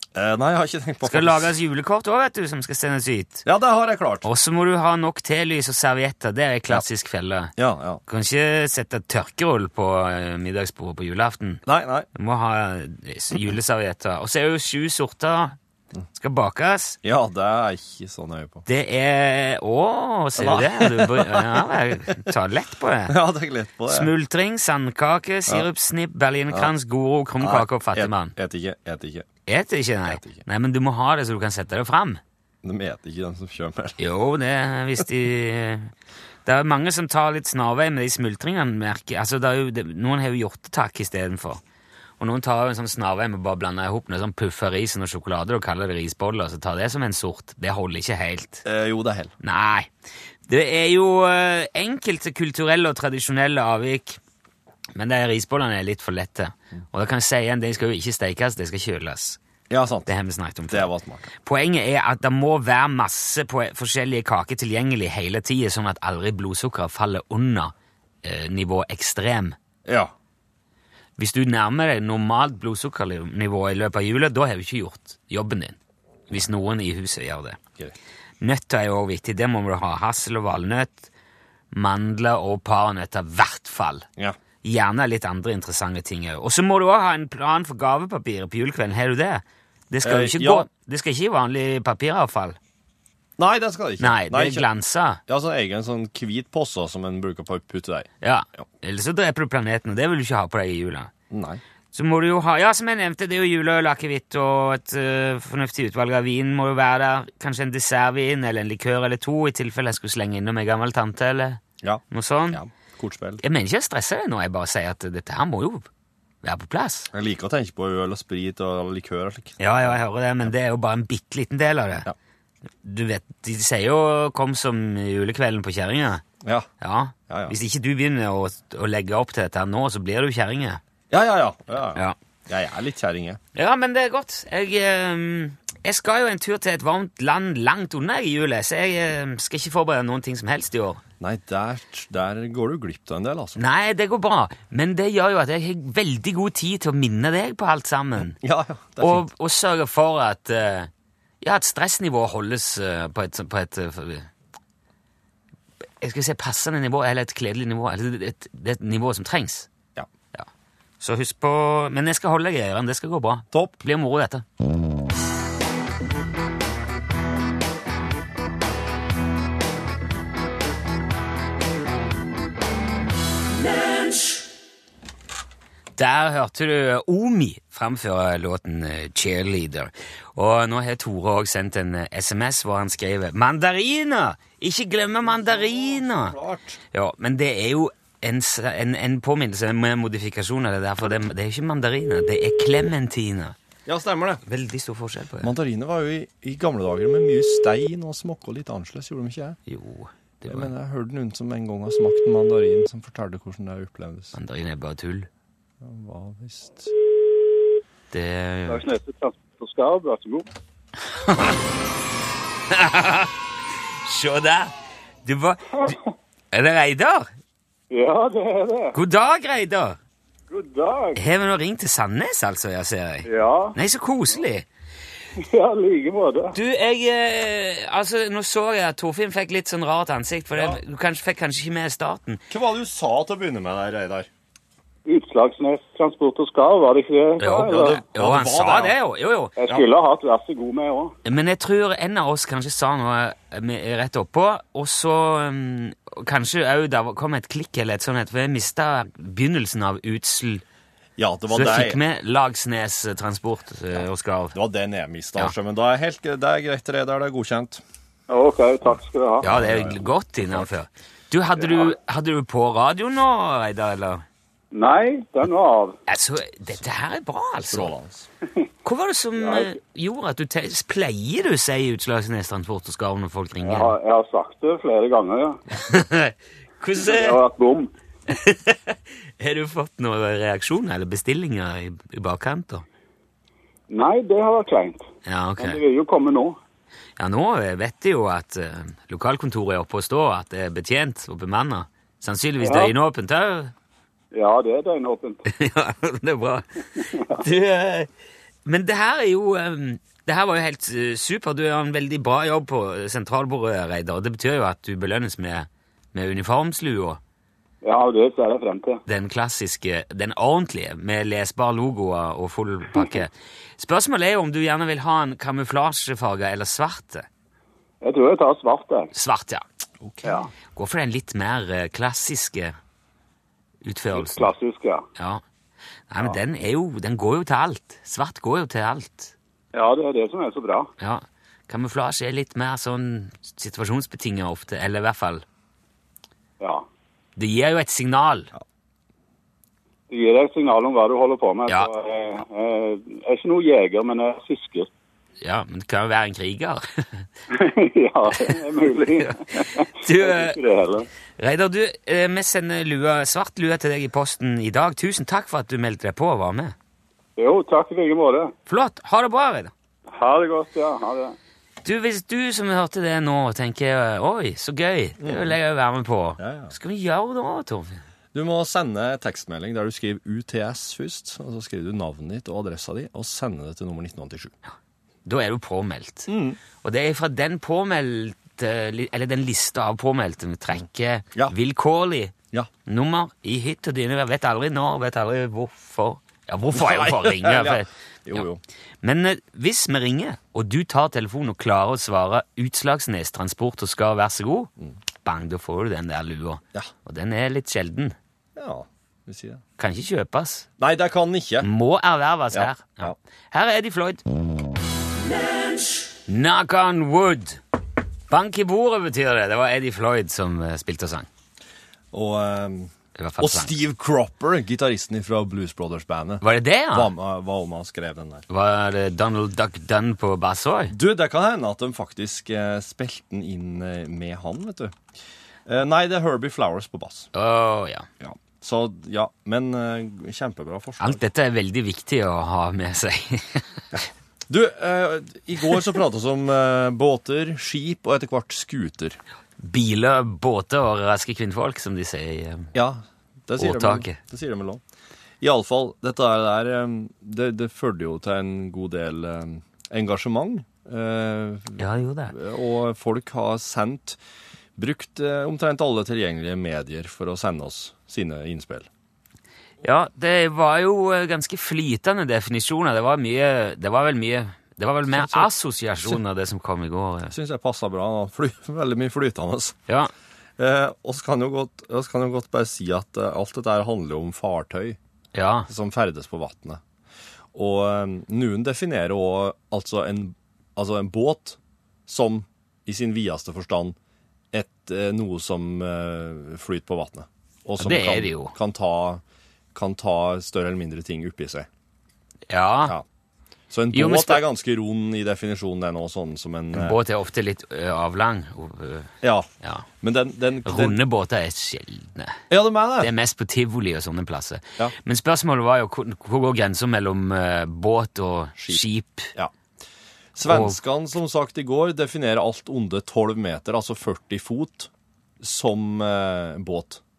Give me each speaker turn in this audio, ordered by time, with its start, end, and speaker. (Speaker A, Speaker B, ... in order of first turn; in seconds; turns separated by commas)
Speaker A: 0.1-1.5, Speaker B: 1.0-3.4, Speaker A: 3.4-4.2, Speaker B: 4.2-7.5, Speaker A: 7.6-8.0, Speaker B: 8.1-11.6, Speaker A: 11.7-12.1, Speaker B: 12.2-15.6, Speaker B: 16.1-17.0, Speaker A: 17.0-18.6, Speaker B: 18.7-23.1, Speaker A: 20.4-22.3, Speaker A: 23.1-24.1, Speaker B: 23.9-28.3, Speaker A: 27.4-29.3, Speaker B: 29.5-32.2, Speaker A: 30.1-30.4, Speaker A: 32.6-34.0, Speaker B: 34.0-35.9, Speaker B: 36.5-41.6, Speaker B: 42.2-48.6, Speaker A: 48.6-49.3, Speaker B: 49.4-49.9, Speaker B: 50.5-54.2, Speaker B: 55.0-59.4, Speaker A: 59.7-60.1, Speaker B: 60.1-67.7, Speaker A: 60.7-61.3, Speaker B: 68.2-69.6, Speaker A: 69.8-70.1, Speaker B: 71.2-75.8, Speaker B: 76.3-77.6, Speaker B: 78.4-81.1, Speaker B: 81.7-84.1, Speaker B: 84.6-92.6, Speaker A: 90.0-90.7, Speaker A: 93.4-94.7, Speaker B: 94.0-95.2, Speaker A: 95.3-98.7, Speaker B: 98.2-101.1, Speaker A: 101.3-101.6, Speaker B: 101.9-112.6, Speaker A: 111.8-113.4, Speaker B: 113.4-115.9, Speaker B: 116.4-117.1, Speaker A: 117.1-119.9, Speaker B: 119.6-122.1, Speaker B: 122.8-126.2, Speaker A: 126.4-126.7, Speaker B: 126.8-130.8, Speaker A: 127.3-127.6, Speaker A: 131.1-133.4, Speaker B: 133.6-141.0, Speaker A: 141.2-143.6, Speaker B: 143.6-148.4, Speaker A: 148.2-149.3, Speaker B: 149.0-150.9, Speaker B: 151.4-154.3, Speaker B: 156.0-159.7, Speaker B: 161.0-164.4, Speaker B: 176.0-186.4, Speaker A: 185.2-186.8, Speaker B: 186.9-193.6, Speaker A: 193.9-194.4, Speaker B: 194.4-195.5, Speaker A: 195.4-199.6, Speaker B: 199.7-200.7, Speaker A: 200.5-204.3, Speaker B: 204.3-205.3, Speaker A: 205.8-206.9, Speaker B: 208.1-208.8, Speaker C: 208.7-210.5, Speaker B: 211.2-211.6, Speaker B: 212.7-213.3, Speaker B: 214.0-214.7, Speaker B: 215.2-215.9, Speaker B: 216.5-217.3, Speaker C: 217.9-218.9, Speaker B: 218.9-220.0, Speaker C: 220.5-221.2, Speaker B: 221.2-224.7, Speaker C: 223.2-223.8, Speaker C: 225.4-226.6, Speaker B: 226.5-232.4, Speaker A: 230.6-230.8, Speaker A: 232.5-234.3, Speaker C: 235.1-238.0, Speaker B: 237.4-239.6, Speaker A: 237.7-238.9, Speaker C: 239.6-241.1, Speaker B: 241.2-250.6, Speaker A: 251.2-252.0, Speaker B: 251.5-254.6, Speaker A: 254.5-257.8, Speaker C: 258.3-259.4, Speaker A: 259.4-260.7, Speaker B: 259.4-264.2, Speaker C: 261.6-261.9, Speaker C: 264.7-266.0, Speaker B: 266.1-267.9, Speaker A: 267.7-268.3, Speaker B: 268.9-273.9, Speaker C: 269.4-269.7, Speaker C: 273.6-275.6, Speaker B: 275.8-277.4, Speaker C: 277.0-277.9, Speaker B: 278.3-282.9, Speaker C: 283.9-286.6, Speaker B: 285.2-285.8, Speaker B: 287.2-293.7, Speaker C: 292.6-292.9, Speaker C: 294.3-295.4, Speaker B: 295.5-298.1, Speaker C: 297.1-297.4, Speaker B: 298.6-307.2, Speaker C: 307.8-309.0, Speaker B: 309.1-317.3, Speaker C: 318.0-319.1, Speaker B: 319.1-319.6, Speaker A: 320.0-320.3, Speaker C: 320.2-320.5, Speaker B: 320.8-322.8, Speaker B: 323.8-324.5, Speaker C: 324.1-325.0, Speaker B: 325.2-325.4, Speaker B: 326.1-329.3, Speaker C: 329.7-330.9, Speaker B: 331.0-335.4, Speaker C: 336.6-336.9, Speaker B: 337.4-338.5, Speaker C: 340.1-344.9, Speaker B: 345.4-347.3, Speaker C: 347.5-351.1, Speaker B: 349.2-350.6, Speaker B: 351.4-356.8, Speaker C: 357.4-358.5, Speaker B: 358.7-359.7, Speaker C: 360.1-361.4, Speaker B: 361.8-368.0, Speaker A: 365.2-365.6, Speaker A: 366.4-366.8, Speaker A: 368.3-374.5, Speaker B: 375.2-376.3, Speaker A: 376.3-376.6, Speaker B: 376.8-382.3, Speaker B: 382.9-388.4, Speaker A: 386.7-388.6, Speaker B: 389.0-394.7, Speaker B: 395.2-398.1, Speaker A: 398.6-399.6, Speaker B: 399.8-400.7, Speaker A: 400.8-401.7, Speaker B: 401.6-404.2, Speaker A: 402.5-403.2, Speaker B: 406.3-407.6, Speaker B: 408.3-411.3, Speaker A: 412.1-418.5, Speaker B: 413.2-413.8, Speaker B: 416.4-417.1, Speaker B: 418.5-420.9, Speaker A: 420.9-424.9, Speaker A: 425.7-427.3, Speaker B: 427.3-428.1, Speaker A: 428.2-431.2, Speaker B: 431.0-434.0, Speaker A: 434.5-439.2, Speaker B: 439.6-442.7, Speaker A: 442.7-444.8, Speaker B: 443.6-444.2, Speaker A: 445.4-454.2, Speaker B: 451.8-452.3, Speaker A: 454.8-458.9, Speaker B: 459.8-467.3, Speaker A: 465.1-465.5, Speaker A: 467.3-469.8, Speaker A: 470.6-475.0, Speaker B: 475.3-475.7, Speaker A: 475.7-476.8, Speaker A: 477.5-484.0, Speaker A: 484.5-489.2, Speaker B: 487.8-488.6, Speaker A: 489.7-491.7, Speaker B: 492.5-493.0, Speaker A: 493.7-497.0, Speaker B: 493.9-494.4, Speaker B: 496.7-499.1, Speaker A: 499.2-499.5, Speaker A: 500.0-501.0, Speaker B: 500.6-502.4, Speaker A: 502.5-503.1, Speaker B: 503.0-509.3, Speaker A: 508.6-509.5, Speaker A: 510.3-514.9, Speaker B: 510.4-510.8, Speaker A: 515.4-517.0